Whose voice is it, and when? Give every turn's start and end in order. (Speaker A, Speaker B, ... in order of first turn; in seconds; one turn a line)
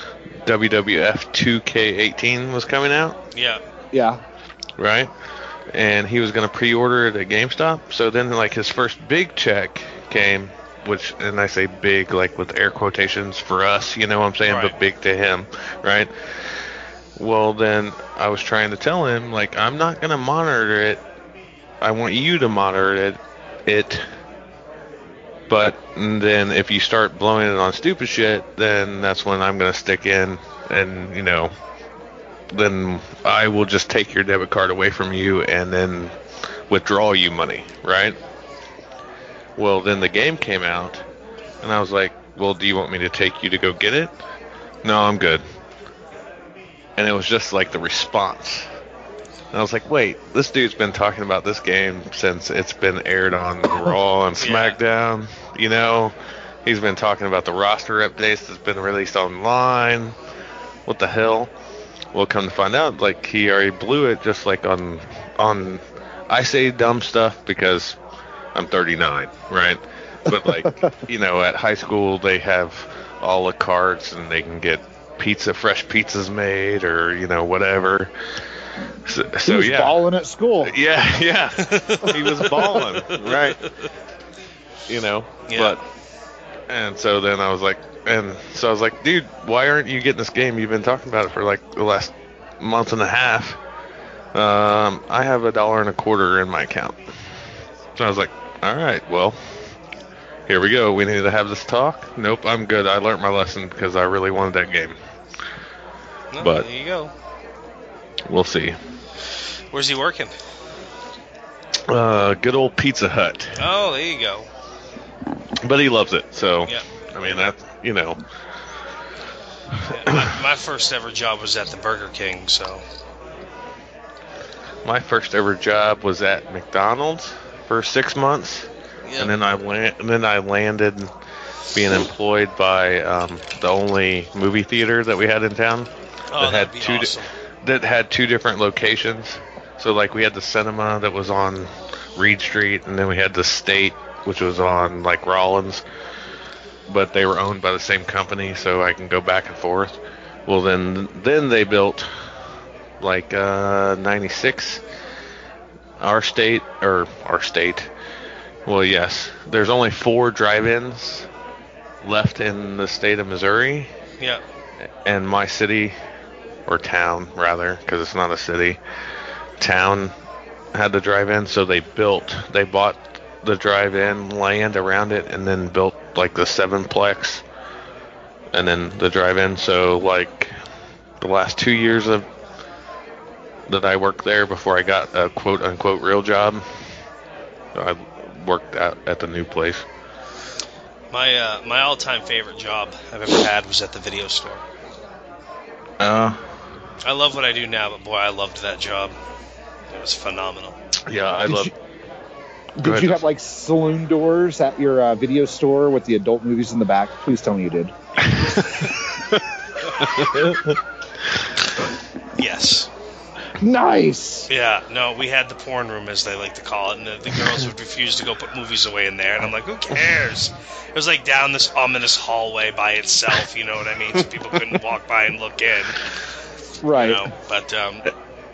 Speaker A: 0.4-3.1
Speaker B: 3.3-3.6
Speaker C: 3.9-4.2
Speaker A: 4.8-5.1
Speaker A: 5.7-16.6
Speaker B: 14.4-14.8
Speaker A: 17.1-21.0
Speaker A: 21.8-24.0
Speaker A: 25.5-31.5
Speaker A: 32.5-36.1
Speaker A: 36.7-38.2
Speaker A: 39.6-41.0
Speaker A: 41.6-44.1
Speaker A: 44.8-45.4
Speaker A: 47.0-48.7
Speaker A: 49.5-56.1
Speaker B: 54.4-54.8
Speaker A: 56.6-60.1
Speaker A: 60.9-61.5
Speaker A: 62.1-68.0
Speaker A: 68.5-78.1
Speaker C: 70.3-70.9
Speaker A: 79.0-80.0
Speaker C: 79.4-80.7
Speaker A: 80.6-83.7
Speaker B: 81.7-83.7
Speaker A: 84.9-85.8
Speaker B: 85.5-85.8
Speaker A: 86.7-93.6
Speaker A: 94.3-97.0
Speaker A: 98.0-99.4
Speaker A: 100.5-105.0
Speaker B: 106.3-107.1
Speaker A: 106.4-106.7
Speaker A: 108.3-108.8
Speaker B: 109.7-110.3
Speaker A: 111.9-113.6
Speaker B: 113.6-114.5
Speaker A: 115.6-118.2
Speaker B: 116.6-117.4
Speaker B: 119.9-122.8
Speaker A: 124.8-128.7
Speaker B: 129.0-129.3
Speaker A: 129.2-131.1
Speaker A: 131.7-145.8
Speaker B: 136.3-137.3
Speaker A: 146.9-152.1
Speaker A: 153.0-154.8
Speaker A: 156.0-157.9
Speaker A: 158.7-161.3
Speaker A: 162.0-163.9
Speaker A: 165.0-165.9
Speaker A: 166.7-168.8
Speaker A: 169.6-170.1
Speaker A: 170.7-177.4
Speaker A: 178.5-180.5
Speaker A: 181.2-182.2
Speaker A: 183.7-186.6
Speaker A: 187.7-189.8
Speaker B: 191.1-194.6
Speaker A: 196.0-196.4
Speaker B: 197.0-199.2
Speaker B: 199.9-200.8
Speaker A: 201.1-201.7
Speaker C: 201.4-201.7
Speaker C: 202.8-207.9
Speaker A: 202.8-203.2
Speaker A: 210.0-210.7
Speaker B: 212.3-212.9
Speaker C: 213.6-214.5
Speaker B: 214.5-226.0
Speaker C: 226.8-227.3
Speaker B: 226.9-228.1